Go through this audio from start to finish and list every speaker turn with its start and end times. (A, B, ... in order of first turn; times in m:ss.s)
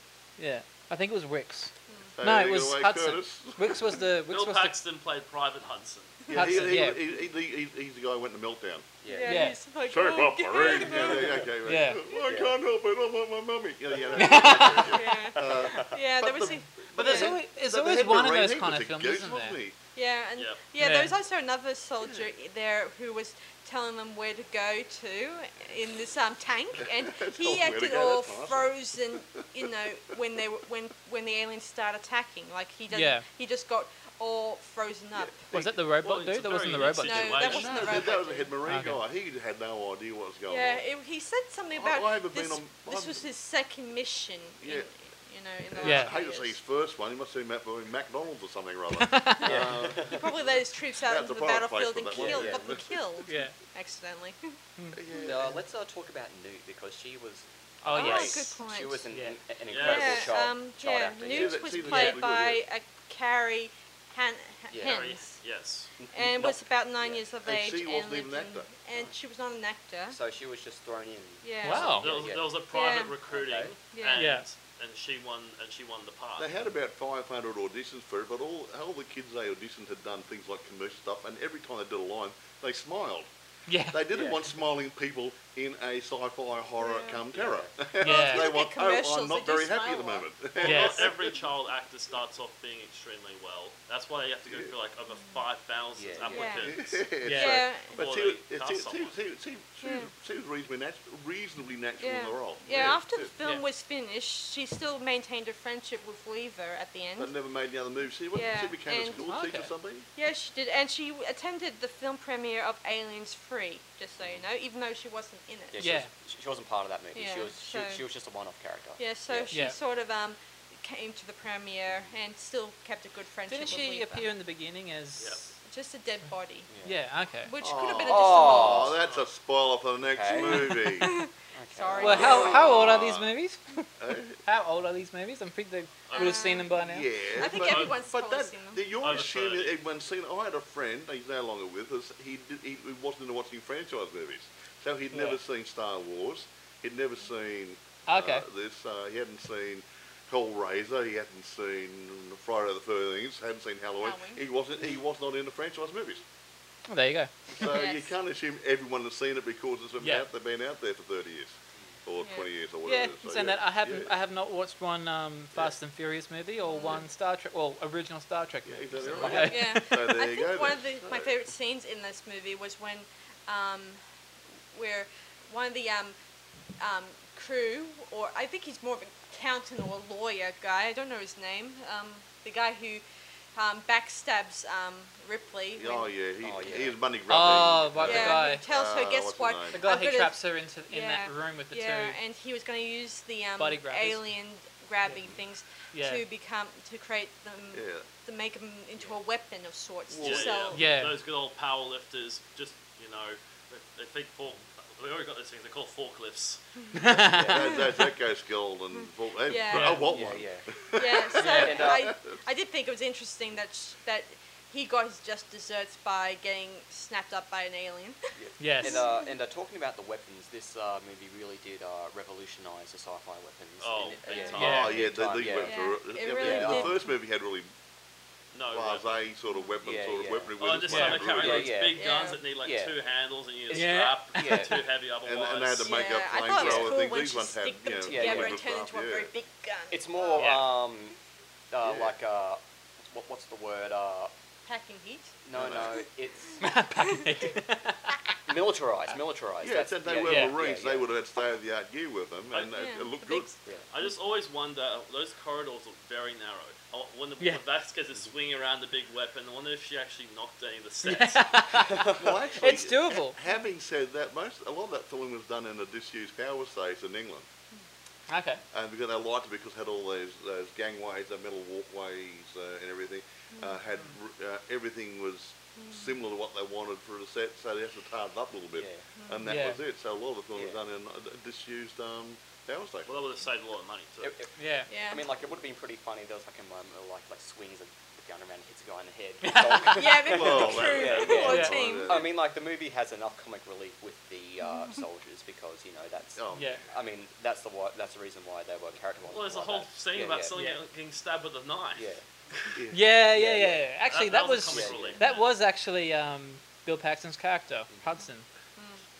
0:00.4-0:04.8 A
0:01.9-0:02.1 B
0:02.2-0:04.0 C
0:04.3-0:06.3 D
0:06.3-0:07.0 A
0:06.3-0:08.8 C
0:09.0-0:09.5 E
0:09.1-0:11.5 B
0:09.2-0:09.6 A
0:09.8-0:19.7 C
0:11.1-0:11.4 E
0:11.6-0:12.0 A
0:12.2-0:12.5 E
0:14.1-0:15.1 A
0:14.6-0:17.3 B
0:15.4-0:15.9 E
0:17.0-0:19.6 A
0:19.9-0:35.5 B
0:20.4-0:20.6 D
0:20.8-0:21.2 A
0:26.8-0:28.8 C
0:29.4-0:29.7 C
0:32.9-0:33.2 A
0:35.5-0:37.7 A
0:36.0-0:38.1 D
0:36.9-0:38.6 B
0:37.4-0:40.8 C
0:38.6-0:39.0 A
0:40.5-0:46.6 B
0:41.7-0:43.3 C
0:44.6-0:44.9 C
0:45.7-0:53.2 C
0:45.8-0:46.1 A
0:48.9-0:49.6 A
0:49.4-0:50.3 E
0:49.9-0:54.6 B
0:52.1-0:52.7 E
0:53.2-0:53.5 A
0:54.9-0:55.6 C
0:55.1-1:01.8 E
0:57.8-0:58.5 A
0:57.9-0:59.0 B
0:59.1-0:59.4 A
0:59.7-1:00.3 D
0:59.8-1:05.4 B
1:01.3-1:02.6 C
1:01.8-1:02.2 A
1:04.7-1:05.0 E
1:04.8-1:05.9 D
1:06.0-1:07.2 E
1:06.1-1:10.2 B
1:07.4-1:08.7 C
1:10.1-1:12.5 E
1:11.4-1:12.0 B
1:11.6-1:12.1 A
1:12.0-1:16.5 D
1:12.7-1:13.1 B
1:13.3-1:13.7 E
1:13.9-1:14.3 B
1:14.1-1:14.4 A
1:16.4-1:23.3 C
1:23.7-1:24.0 A
1:23.9-1:31.4 C
1:24.1-1:24.4 E
1:26.8-1:27.2 B
1:27.3-1:27.8 E
1:28.0-1:28.5 A
1:28.0-1:30.3 B
1:30.6-1:37.1 D
1:30.6-1:31.1 A
1:34.5-1:34.7 C
1:35.1-1:35.4 B
1:35.9-1:36.6 E
1:36.2-1:36.7 B
1:36.6-1:43.3 C
1:37.2-1:37.6 A
1:37.3-1:38.0 B
1:37.9-1:39.1 D
1:39.8-1:40.1 B
1:42.0-1:47.3 B
1:47.2-1:50.1 C
1:48.3-1:49.2 B
1:49.2-1:49.7 A
1:50.2-1:56.0 B
1:55.7-1:59.6 E
1:55.8-1:56.1 A
1:57.1-1:58.0 B
1:59.0-2:04.3 B
1:59.5-1:59.8 A
2:03.5-2:05.5 A
2:05.2-2:05.5 D
2:05.6-2:06.7 B
2:06.7-2:07.0 E
2:06.8-2:07.5 A
2:07.4-2:09.0 B
2:07.6-2:11.1 C
2:08.0-2:09.0 E
2:09.0-2:09.3 D
2:10.1-2:10.8 E
2:10.5-2:12.8 B
2:11.5-2:12.6 E
2:12.0-2:13.3 C
2:12.0-2:13.9 A
2:14.0-2:14.4 C
2:14.4-2:17.1 A
2:16.1-2:16.5 D
2:16.1-2:16.8 B
2:16.7-2:36.2 C
2:17.3-2:19.0 B
2:17.4-2:18.0 D
2:19.0-2:19.8 D
2:25.1-2:25.4 A
2:28.1-2:28.4 A
2:34.0-2:34.4 B
2:36.9-2:37.3 A
2:37.5-2:44.1 C
2:37.6-2:38.1 B
2:40.0-2:40.2 A
2:42.2-2:42.5 B
2:42.8-2:50.1 A
2:46.6-2:47.0 B
2:48.6-2:51.3 C
2:49.1-2:49.6 E
2:49.4-2:54.0 B
2:54.7-2:56.2 B
2:56.8-3:06.1 B
3:05.7-3:09.9 C
3:06.4-3:07.0 E
3:07.3-3:08.6 A
3:08.0-3:20.8 B
3:09.7-3:12.2 A
3:13.6-3:14.2 A
3:15.1-3:15.4 E
3:15.9-3:16.2 A
3:17.7-3:18.1 C
3:20.1-3:20.7 C
3:20.2-3:26.6 D
3:20.7-3:21.2 A
3:26.9-3:27.8 A
3:27.3-3:27.8 E
3:27.3-3:32.4 C
3:28.9-3:30.2 B
3:29.7-3:30.0 D
3:30.0-3:30.7 E
3:30.9-3:38.2 B
3:31.4-3:31.8 A
3:31.4-3:32.1 E
3:38.3-3:47.0 E
3:38.6-3:39.1 A
3:38.8-3:39.3 B
3:43.8-3:45.0 D
3:44.2-3:44.8 B
3:44.6-3:45.0 A
3:44.6-3:47.7 C
3:45.4-3:47.1 B
3:48.5-3:49.2 D
3:48.7-3:51.7 C
3:49.8-3:52.0 E
3:50.6-3:56.0 D
3:50.9-3:51.3 A
3:52.0-3:52.4 B
3:52.6-3:52.9 E
3:53.7-3:54.8 E
3:53.7-3:54.7 A
3:55.2-3:59.3 C
3:55.8-4:00.5 B
3:56.6-3:56.9 E
3:58.0-3:58.7 E
3:59.9-4:01.2 E
4:00.4-4:00.7 A
4:01.7-4:04.3 E
4:01.8-4:02.2 C
4:04.6-4:05.3 B
4:05.4-4:06.6 E
4:05.5-4:06.0 C
4:06.6-4:08.4 A
4:07.0-4:07.5 B
4:08.5-4:11.1 E
4:09.6-4:13.5 C
4:10.2-4:10.6 A
4:12.7-4:13.5 B
4:13.9-4:21.6 D
4:21.0-4:23.4 A
4:21.8-4:22.4 E
4:22.1-4:27.4 C
4:28.3-4:28.6 A
4:28.7-4:43.1 C
4:33.5-4:33.8 B
4:35.8-4:36.1 B
4:38.8-4:39.0 E
4:39.2-4:39.5 B
4:39.4-4:39.8 A
4:40.5-4:40.8 E
4:43.0-4:44.3 D
4:44.2-5:00.5 E
4:44.6-4:44.9 A
4:44.9-4:45.2 B
4:49.4-4:50.1 A
4:50.0-4:52.2 B
4:50.3-4:52.3 C
4:51.4-4:51.7 A
4:54.6-4:55.0 B
4:56.4-4:56.8 C
4:56.5-4:56.8 A
4:59.3-5:02.8 D
5:00.5-5:00.8 A
5:01.9-5:02.2 E
5:02.7-5:03.1 C
5:02.9-5:08.5 A
5:03.3-5:03.9 E
5:04.0-5:05.5 D
5:04.6-5:05.2 E